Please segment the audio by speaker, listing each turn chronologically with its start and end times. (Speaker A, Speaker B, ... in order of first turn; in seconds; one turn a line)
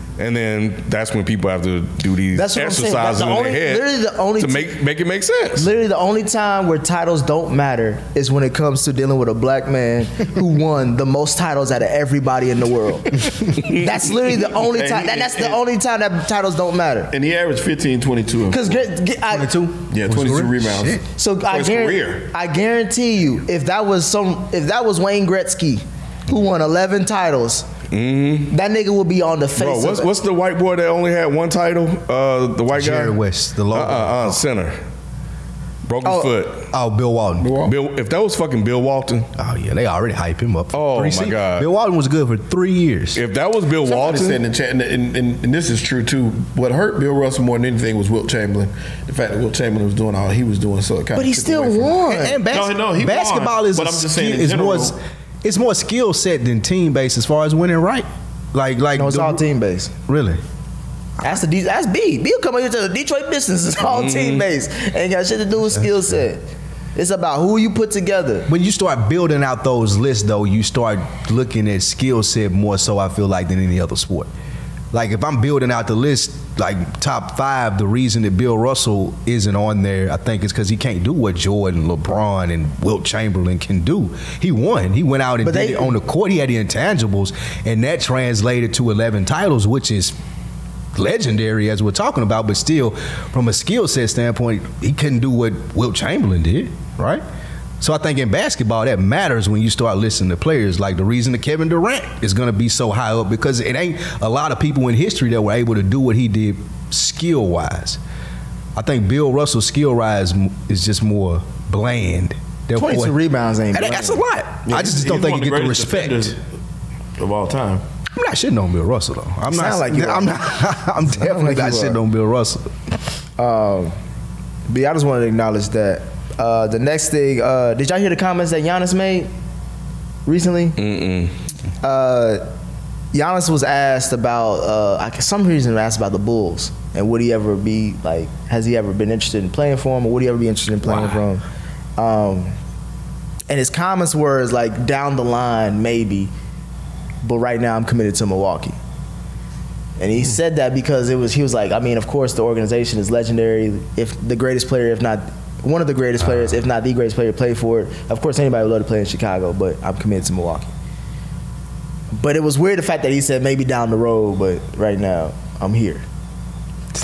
Speaker A: 0.2-5.7
Speaker B: 2.3-4.7
Speaker B: 5.6-17.1
Speaker C: 14.5-15.6
Speaker C: 17.1-18.9
Speaker B: 18.5-19.5
Speaker D: 19.3-21.0
Speaker C: 19.9-22.3
Speaker B: 21.1-27.7
Speaker A: 27.9-28.5
Speaker B: 28.5-30.1
Speaker A: 29.6-33.2
Speaker D: 32.7-34.4
Speaker A: 33.7-34.8
Speaker A: 35.9-36.7
Speaker B: 36.0-36.3
Speaker D: 36.7-37.5
Speaker C: 37.4-37.7
Speaker A: 37.6-39.3
Speaker D: 39.4-43.2
Speaker A: 40.7-41.7
Speaker A: 43.1-44.4
Speaker C: 43.8-55.0
Speaker B: 51.1-52.4
Speaker D: 52.1-59.4
Speaker B: 59.0-59.9
Speaker D: 60.1-60.4
Speaker B: 61.2-68.5
Speaker A: 63.8-64.4
Speaker D: 68.5-74.3
Speaker D: 74.9-90.2
Speaker B: 85.4-86.0
Speaker D: 90.9-97.2
Speaker D: 97.8-108.0
Speaker D: 108.8-113.2
Speaker B: 112.7-114.2
Speaker D: 113.7-116.4
Speaker C: 114.6-116.4
Speaker C: 117.2-117.8
Speaker D: 118.1-122.7
Speaker B: 119.5-120.5
Speaker B: 121.0-122.0
Speaker B: 123.4-124.0
Speaker B: 124.7-129.3
Speaker B: 130.2-130.8
Speaker A: 130.8-131.3
Speaker B: 131.8-132.4
Speaker B: 133.1-141.4
Speaker B: 142.0-142.6
Speaker B: 143.5-146.3
Speaker B: 147.2-148.8
Speaker B: 150.0-160.7
Speaker B: 162.1-166.0